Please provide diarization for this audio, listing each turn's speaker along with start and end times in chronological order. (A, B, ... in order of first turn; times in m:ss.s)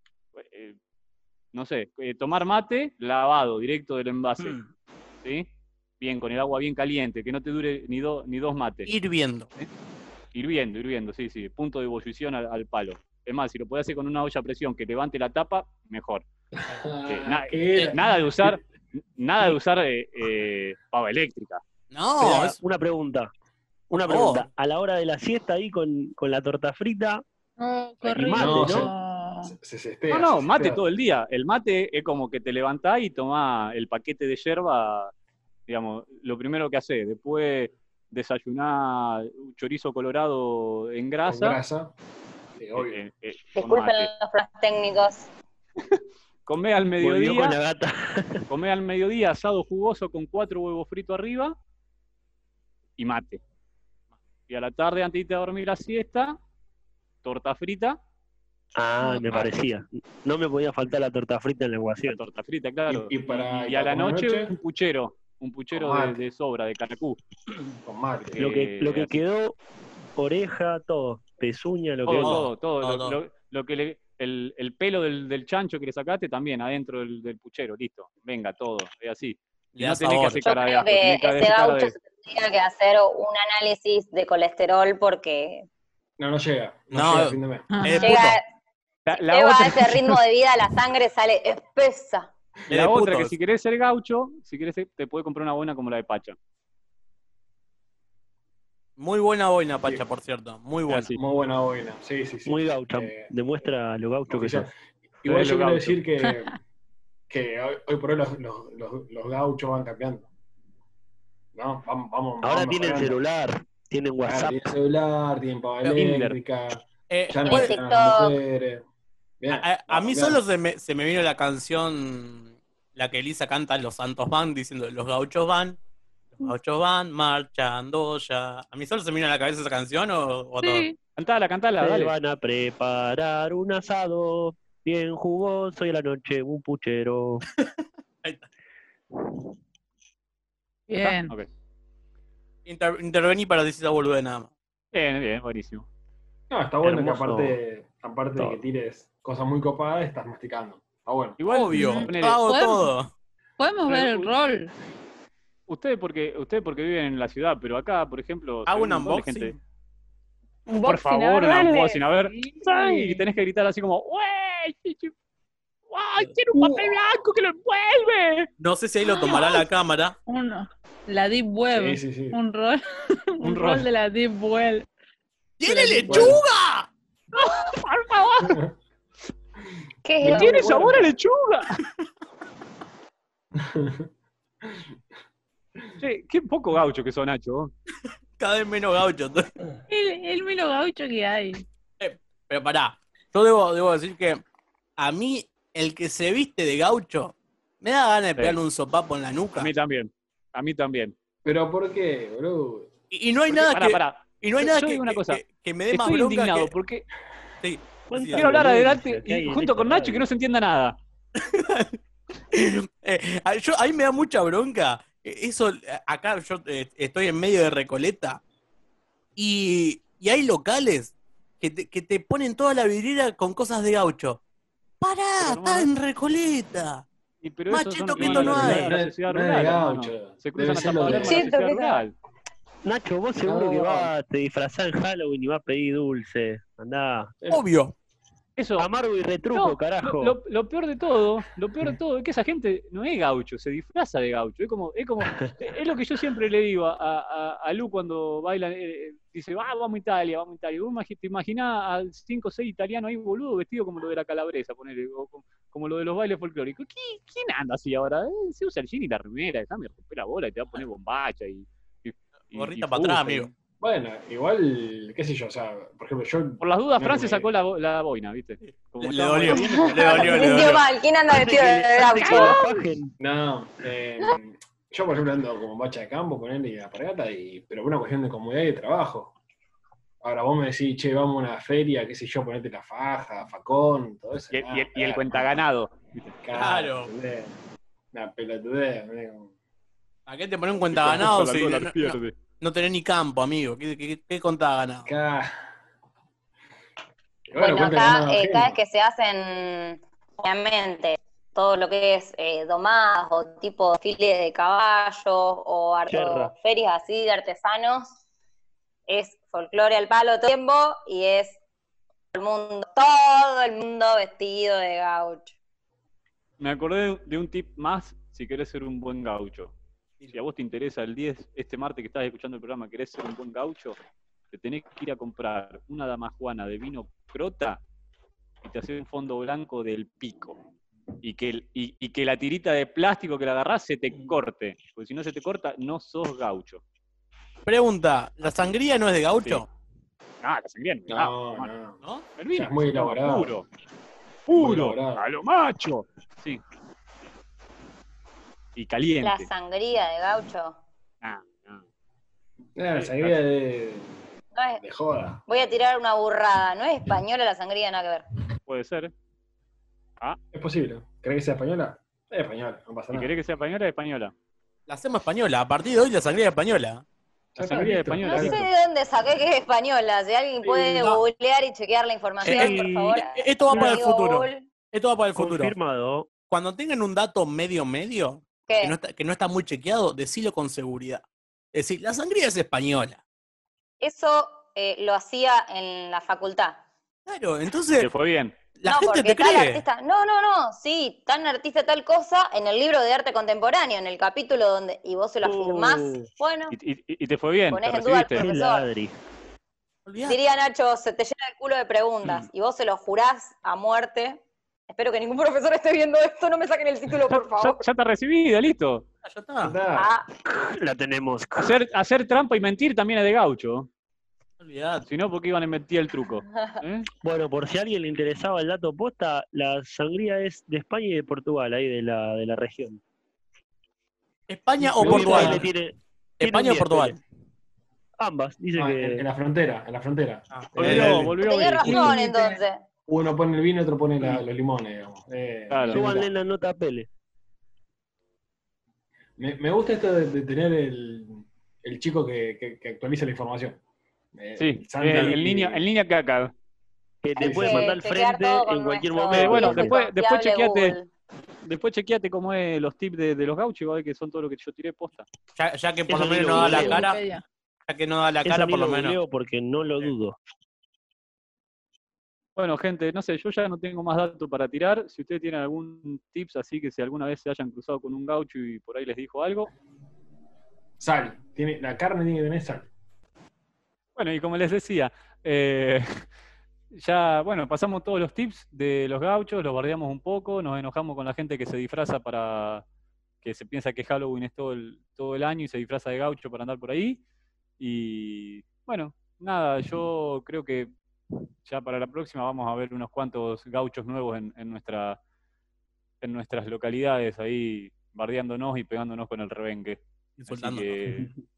0:00.4-0:00.8 A
0:01.5-0:04.6 A
0:04.4-0:04.7 B
0:06.0-0:08.9 A
0:08.9-0:09.5 B
0:10.3-0:16.2 A
0:16.6-0:18.6 C
0:17.1-0:21.6 A
0:21.9-0:22.6 B
0:22.2-0:23.3 D
0:23.9-0:27.2 D
0:23.9-0:24.5 B
0:27.6-0:29.6 E
0:28.0-0:28.9 D
0:28.3-0:28.9 C
0:29.4-0:30.8 C
0:30.1-0:35.1 A
0:35.7-0:41.6 A
0:41.2-0:41.9 C
0:42.6-0:43.0 C
0:42.8-0:44.1 A
0:43.6-0:45.3 F
0:46.5-0:47.6 A
0:47.0-0:48.4 D
0:48.5-0:51.6 A
0:53.0-0:53.4 A
0:54.5-0:56.4 A
0:57.2-0:58.0 A
0:58.8-1:02.2 D
0:59.1-0:59.5 A
1:02.0-1:07.2 A
1:02.9-1:04.6 C
1:05.7-1:06.2 C
1:07.8-1:08.4 C
1:08.3-1:09.2 A
1:08.4-1:09.6 D
1:10.2-1:12.5 D
1:12.0-1:21.9 A
1:12.1-1:13.2 B
1:19.8-1:20.4 B
1:20.4-1:25.7 F
1:26.2-1:27.7 C
1:26.9-1:28.4 B
1:27.7-1:28.3 E
1:28.0-1:28.4 F
1:29.1-1:30.2 A
1:29.1-1:32.3 F
1:32.7-1:33.3 B
1:32.7-1:36.4 A
1:39.0-1:41.2 B
1:40.9-1:41.2 A
1:41.2-1:43.3 C
1:42.5-1:44.7 D
1:44.3-1:46.6 C
1:45.2-1:46.0 A
1:47.3-1:50.3 C
1:51.5-1:53.2 C
1:52.4-1:54.6 D
1:54.2-1:58.8 C
1:56.0-1:56.4 A
1:57.1-1:57.8 B
1:57.5-1:58.4 F
1:59.4-2:00.4 C
1:59.5-2:05.8 B
2:06.4-2:10.9 B
2:10.6-2:11.0 E
2:11.2-2:12.2 A
2:11.8-2:17.5 D
2:20.9-2:21.3 E
2:21.0-2:21.5 A
2:22.7-2:24.5 B
2:24.9-2:25.9 A
2:26.5-2:31.4 C
2:26.8-2:27.6 D
2:31.4-2:32.4 A
2:31.5-2:33.1 B
2:31.7-2:32.9 E
2:33.6-2:34.7 E
2:33.9-2:34.3 A
2:35.7-2:39.6 A
2:38.7-2:39.6 B
2:40.7-2:43.2 E
2:40.8-2:45.1 A
2:45.9-2:48.5 A
2:48.6-2:50.2 B
2:49.1-2:49.7 E
2:50.3-2:54.9 E
2:51.7-2:52.4 C
2:53.4-2:53.9 A
2:55.6-2:56.9 B
2:55.6-2:56.4 E
2:56.1-2:56.4 C
2:57.4-2:58.7 A
3:00.0-3:00.9 F
3:00.2-3:01.1 C
3:00.3-3:01.7 A
3:03.6-3:04.1 C
3:06.0-3:07.7 A
3:08.4-3:09.5 B
3:09.9-3:11.6 E
3:12.0-3:14.4 B
3:15.0-3:19.7 B
3:19.6-3:21.2 A
3:21.4-3:22.9 C
3:23.1-3:26.7 B
3:23.5-3:27.0 A
3:27.6-3:28.5 B
3:28.1-3:30.3 D
3:28.3-3:31.0 A
3:31.4-3:32.0 B
3:32.5-3:38.4 B
3:39.4-3:44.4 B
3:45.0-3:47.1 B
3:45.4-3:45.9 A
3:47.4-3:52.2 A
3:47.7-3:48.9 B
3:48.2-3:51.5 C
3:51.1-3:52.0 F
3:52.8-3:57.4 D
3:53.4-3:54.1 C
3:57.5-3:57.9 B
3:58.6-3:58.9 A
3:58.8-4:00.4 D
3:59.5-4:23.5 A
4:22.5-4:23.5 B
4:23.8-4:27.5 C
4:26.6-4:30.7 A
4:28.6-4:30.8 B
4:29.5-4:32.6 F
4:31.3-4:33.2 D
4:32.2-4:32.8 A
4:33.2-4:39.3 C
4:40.2-4:45.6 C
4:44.5-4:46.4 A
4:46.4-4:47.6 C
4:46.5-4:47.1 B
4:48.1-4:49.5 C
4:50.3-4:55.1 B
4:50.9-4:52.4 A
4:51.0-4:51.3 C
4:55.0-4:55.6 C
4:57.5-4:58.8 C
4:57.6-5:08.1 F
5:06.1-5:06.5 D
5:09.1-5:11.6 F
5:12.3-5:15.5 F
5:16.6-5:19.7 A
5:20.3-5:24.0 A
5:24.5-5:27.8 A
5:28.6-5:30.6 A
5:31.2-5:36.8 A
5:37.7-5:39.7 B
5:40.4-5:41.7 A
5:41.1-5:42.0 C
5:42.4-5:43.7 A
5:42.5-5:43.6 C
5:44.5-5:46.6 A
5:44.5-5:45.3 C
5:48.8-5:49.5 A
5:49.2-5:50.8 F
5:51.2-5:51.8 A
5:52.8-5:54.2 C
5:52.9-5:53.4 A
5:54.6-5:54.8 F
5:54.8-5:55.4 C
5:55.5-5:58.2 F
5:58.7-5:59.1 A
6:00.5-6:03.3 C
6:03.1-6:04.3 A
6:04.9-6:07.0 B
6:07.6-6:08.7 C
6:07.6-6:08.7 A
6:08.2-6:14.6 F
6:10.6-6:11.1 C
6:12.4-6:15.7 B
6:12.4-6:13.2 D
6:13.7-6:14.0 D
6:15.4-6:16.3 D
6:16.5-6:21.2 B
6:18.7-6:18.9 F
6:21.7-6:23.2 B
6:24.0-6:26.8 F
6:27.3-6:28.1 B
6:28.0-6:28.6 A
6:28.8-6:29.8 B
6:28.9-6:36.8 F
6:35.4-6:36.3 D
6:36.7-6:38.5 A
6:37.7-6:38.9 F
6:38.4-6:39.1 D
6:40.1-6:40.4 B
6:40.3-6:47.8 F
6:47.3-6:49.1 A
6:49.2-6:49.7 B
6:49.6-6:50.1 C
6:50.0-6:50.3 F
6:50.5-6:51.8 D
6:51.6-6:53.9 A
6:54.6-6:55.1 B
6:55.1-6:57.1 A
6:57.2-7:03.0 D
7:04.5-7:05.7 B
7:04.8-7:07.2 D
7:05.0-7:05.7 C
7:06.4-7:07.2 B
7:08.2-7:09.2 D
7:08.8-7:11.4 C
7:10.5-7:11.3 B
7:10.8-7:12.2 A
7:11.4-7:12.8 F
7:11.9-7:12.6 E
7:13.1-7:16.3 C
7:15.7-7:16.0 A
7:15.9-7:17.1 D
7:19.4-7:23.8 C
7:24.3-7:25.8 C
7:24.6-7:26.5 A
7:27.2-7:30.0 D
7:27.4-7:28.0 C
7:27.4-7:31.1 F
7:29.3-7:31.0 A
7:31.6-7:35.3 A
7:35.6-7:37.2 B
7:36.1-7:37.1 D
7:36.5-7:37.4 E
7:37.9-7:39.2 B
7:38.4-7:40.4 D
7:42.6-7:49.7 A
7:51.0-7:52.9 C
7:54.2-7:56.1 A
7:56.9-8:02.8 A
8:03.4-8:07.2 A
8:07.8-8:10.9 A
8:11.6-8:15.2 A
8:16.2-8:21.3 A
8:20.4-8:21.0 B